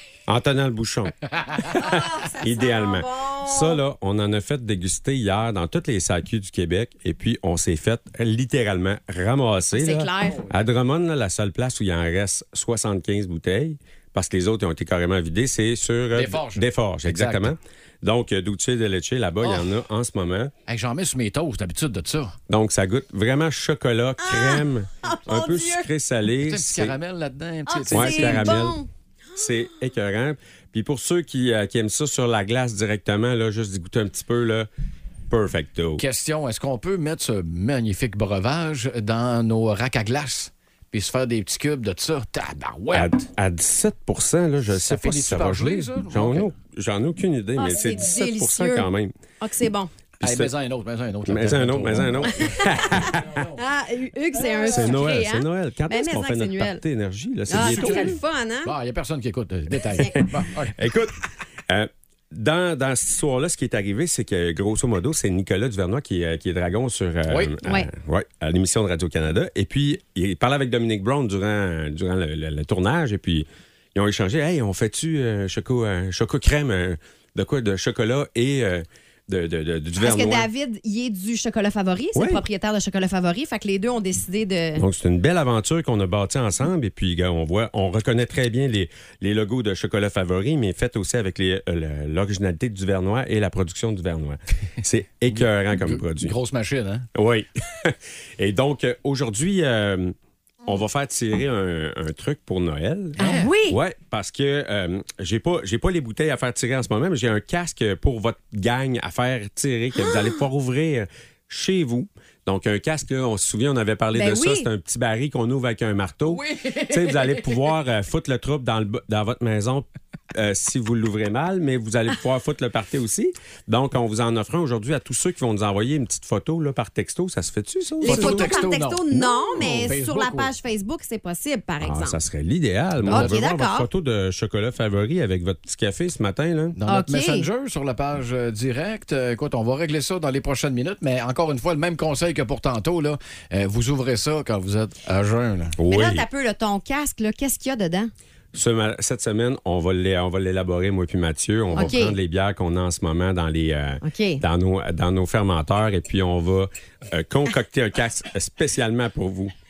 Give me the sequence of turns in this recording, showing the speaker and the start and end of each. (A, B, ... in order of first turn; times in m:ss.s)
0:00.3-0:20.5 A
0:01.3-0:01.7 B
0:01.7-0:03.8 C
0:09.7-0:10.5 C
0:16.1-0:17.5 B
0:19.4-0:19.7 B
0:20.7-0:22.4 B
0:22.5-0:26.9 A
0:24.2-0:25.9 C
0:26.4-0:28.7 B
0:27.7-0:28.9 C
0:27.9-0:28.8 A
0:29.4-0:34.7 A
0:35.3-0:36.0 A
0:36.0-0:43.2 B
0:42.9-0:49.1 A
0:44.7-0:46.5 B
0:47.6-0:48.9 C
0:49.4-0:49.9 C
0:50.2-0:50.5 A
0:50.2-0:53.6 B
0:51.3-0:53.4 A
0:52.2-0:56.8 C
0:54.3-0:55.0 B
0:54.7-0:58.2 A
0:57.5-0:58.7 C
0:57.5-1:00.9 B
1:00.2-1:20.5 A
1:07.3-1:07.5 B
1:07.6-1:07.9 C
1:20.0-1:24.8 C
1:22.1-1:22.4 A
1:24.8-1:36.3 A
1:35.3-1:37.1 B
1:37.1-1:40.1 A
1:40.6-2:08.6 A
1:43.2-1:43.5 B
1:43.2-1:43.8 C
1:49.9-1:50.4 C
1:54.1-1:54.7 C
1:56.2-1:57.7 B
2:08.0-2:12.2 C
2:08.0-2:10.5 B
2:09.2-2:09.9 A
2:11.8-2:16.8 A
2:13.0-2:13.3 B
2:13.1-2:13.9 C
2:16.7-2:25.8 B
2:16.9-2:17.5 C
2:25.8-2:26.2 A
2:25.9-2:28.1 C
2:28.5-2:39.5 A
2:31.7-2:32.2 C
2:34.0-2:34.4 C